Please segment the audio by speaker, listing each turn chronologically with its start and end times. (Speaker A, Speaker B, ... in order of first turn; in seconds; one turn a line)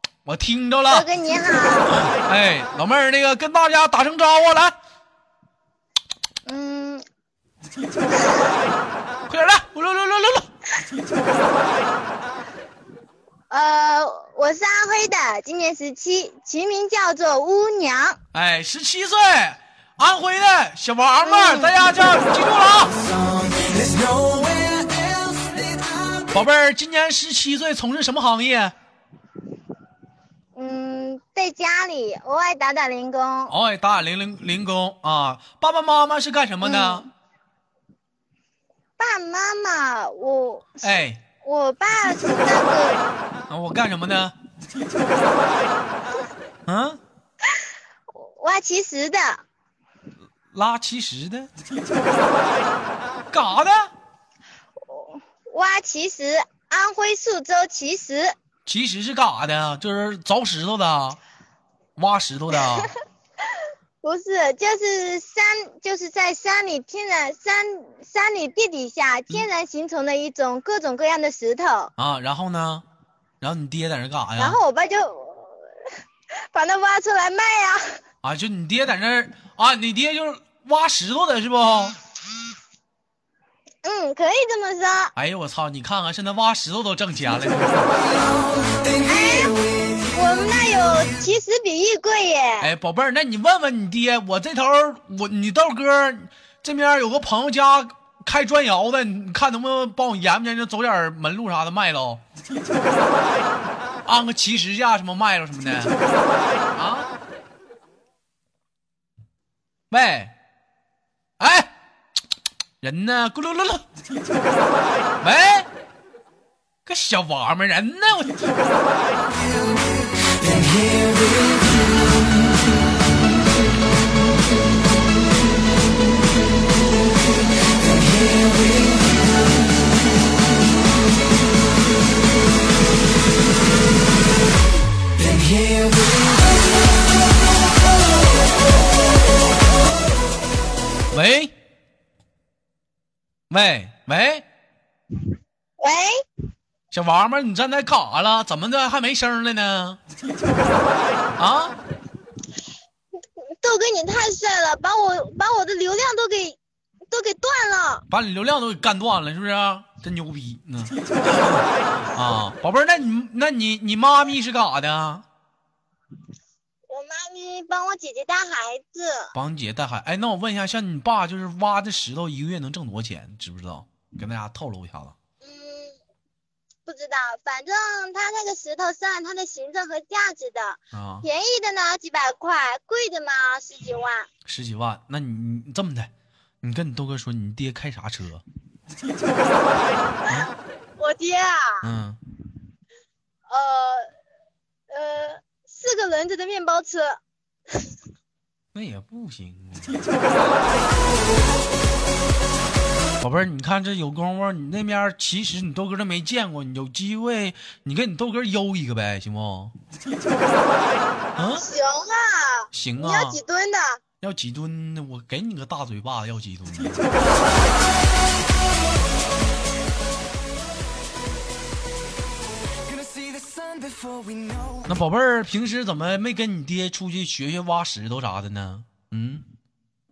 Speaker A: 0.3-1.1
Speaker B: 0.9-1.9
Speaker A: 2.0-4.8
Speaker B: 6.5-7.0
Speaker A: 9.3-10.5
Speaker B: 13.5-18.2
Speaker A: 18.3-23.0
Speaker B: 21.2-21.8
Speaker C: 23.3-26.3
Speaker A: 26.3-28.8
Speaker B: 30.6-33.5
Speaker A: 33.5-37.1
Speaker B: 36.6-37.1
Speaker B: 39.0-43.0
Speaker A: 40.8-41.2
Speaker A: 43.5-44.3
Speaker A: 46.7-47.0
Speaker B: 48.2-49.4
Speaker A: 50.5-51.5
Speaker A: 53.3-53.9
Speaker B: 54.9-58.4
Speaker A: 58.7-61.2
Speaker A: 62.0-62.9
Speaker B: 64.0-71.9
Speaker A: 72.0-72.8
Speaker A: 73.4-74.6
Speaker B: 74.4-75.7
Speaker B: 76.5-77.8
Speaker A: 78.2-82.0
Speaker B: 83.8-85.1
Speaker A: 85.2-88.0
Speaker B: 89.0-89.6
Speaker B: 90.1-92.7
Speaker A: 92.6-102.2
Speaker A: 104.1-106.0
Speaker A: 106.7-107.1
Speaker A: 109.9-110.3
Speaker A: 111.4-111.7
Speaker A: 112.8-113.8
Speaker A: 115.2-115.7
Speaker A: 116.9-118.4
Speaker A: 141.1-141.5
Speaker A: 143.5-144.4
Speaker B: 145.8-146.2
Speaker A: 146.9-150.0
Speaker A: 151.4-151.8
Speaker B: 153.6-156.6
Speaker B: 157.1-158.1
Speaker A: 158.1-165.2
Speaker B: 166.9-169.3
Speaker A: 169.3-175.1
Speaker B: 175.4-176.0
Speaker B: 176.9-184.3
Speaker A: 180.9-181.2
Speaker A: 184.5-186.1
Speaker A: 186.6-188.4
Speaker B: 191.0-191.9
Speaker A: 191.8-192.2
Speaker B: 193.5-194.1
Speaker B: 194.9-197.2
Speaker A: 198.7-200.6
Speaker A: 203.2-209.7
Speaker A: 211.4-211.6
Speaker B: 211.5-214.0
Speaker A: 212.7-213.4
Speaker A: 214.2-217.1
Speaker C: 222.9-224.8
Speaker A: 224.9-229.5